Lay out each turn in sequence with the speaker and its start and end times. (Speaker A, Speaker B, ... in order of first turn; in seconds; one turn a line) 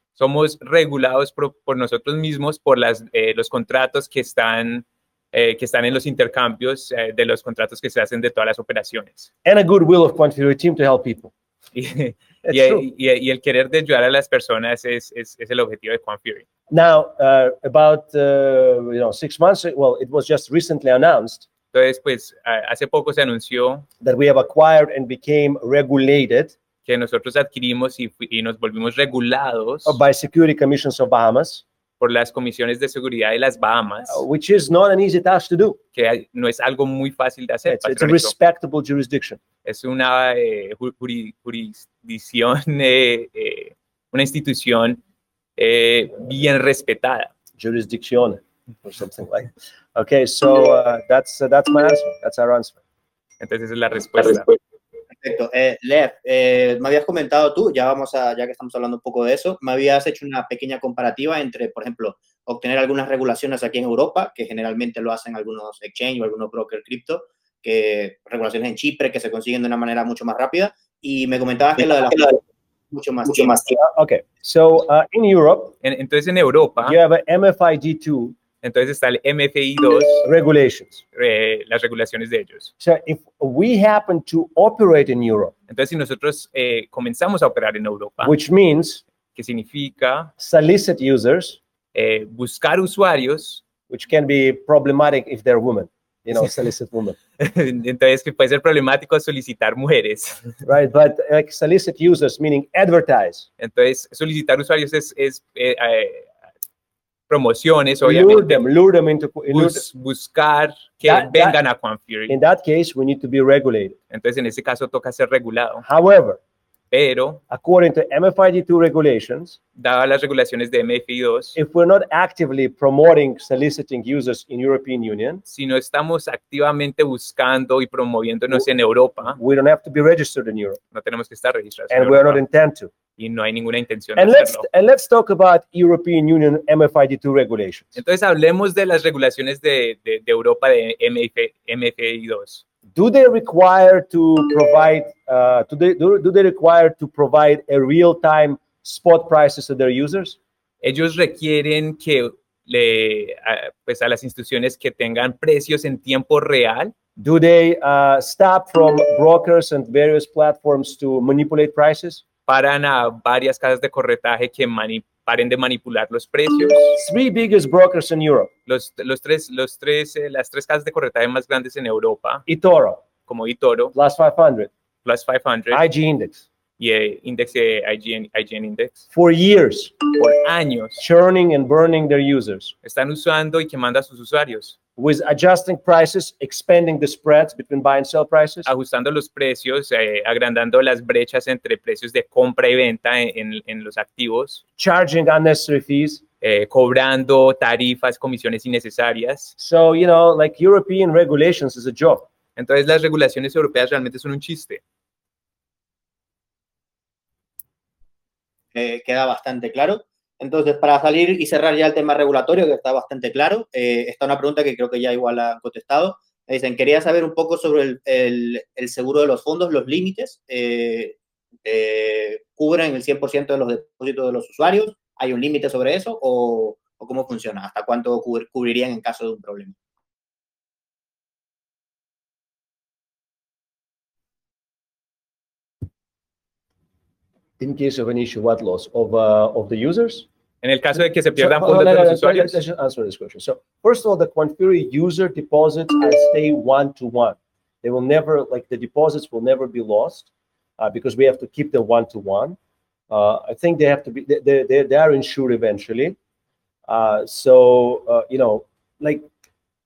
Speaker A: 0.2-9.3
Speaker B: 9.4-11.3
Speaker A: 11.7-16.4
Speaker B: 12.4-12.8
Speaker B: 16.7-21.5
Speaker A: 21.7-23.9
Speaker B: 24.0-26.5
Speaker A: 26.8-30.0
Speaker B: 29.9-31.6
Speaker A: 32.0-34.2
Speaker B: 34.1-35.8
Speaker A: 35.9-38.3
Speaker B: 37.6-39.4
Speaker A: 39.6-45.0
Speaker A: 45.6-47.3
Speaker B: 47.6-52.8
Speaker A: 53.4-54.5
Speaker C: 55.2-72.4
Speaker C: 72.9-73.7
Speaker B: 73.6-75.7
Speaker A: 75.8-77.0
Speaker B: 76.8-78.3
Speaker A: 78.6-80.2
Speaker B: 80.2-81.0
Speaker A: 81.1-82.7
Speaker B: 82.8-85.5
Speaker A: 85.7-88.3
Speaker B: 88.2-89.0
Speaker A: 89.3-90.3
Speaker B: 90.4-91.6
Speaker A: 91.9-93.6
Speaker B: 93.9-97.2
Speaker A: 97.4-100.5
Speaker B: 100.6-103.5
Speaker A: 103.6-106.3
Speaker A: 107.3-108.6
Speaker B: 108.0-109.8
Speaker A: 109.5-112.4
Speaker B: 111.0-111.6
Speaker B: 112.3-114.0
Speaker A: 114.1-115.8
Speaker B: 115.8-116.4
Speaker A: 116.9-117.4
Speaker B: 117.5-119.6
Speaker A: 119.8-121.5
Speaker B: 121.5-125.4
Speaker A: 125.5-129.4
Speaker B: 129.2-130.8
Speaker A: 130.9-132.4
Speaker B: 131.9-132.9
Speaker A: 133.2-134.7
Speaker B: 134.2-137.9
Speaker A: 137.9-142.6
Speaker B: 142.9-150.4
Speaker A: 150.8-156.9
Speaker B: 157.2-162.2
Speaker A: 162.5-167.0
Speaker B: 166.9-168.5
Speaker A: 168.7-172.4
Speaker B: 172.5-173.0
Speaker A: 173.3-173.9
Speaker B: 173.9-174.7
Speaker A: 175.0-175.8
Speaker B: 175.7-176.4
Speaker A: 176.8-179.0
Speaker B: 179.1-180.0
Speaker A: 180.2-181.0
Speaker B: 181.0-182.7
Speaker A: 182.8-184.8
Speaker B: 185.0-188.7
Speaker A: 188.6-194.6
Speaker B: 194.8-196.2
Speaker A: 196.4-199.5
Speaker B: 199.6-202.3
Speaker A: 202.6-204.8
Speaker C: 208.7-229.7
Speaker B: 237.6-240.2
Speaker A: 240.6-242.6
Speaker B: 241.3-252.6
Speaker B: 253.1-256.1
Speaker B: 256.9-259.3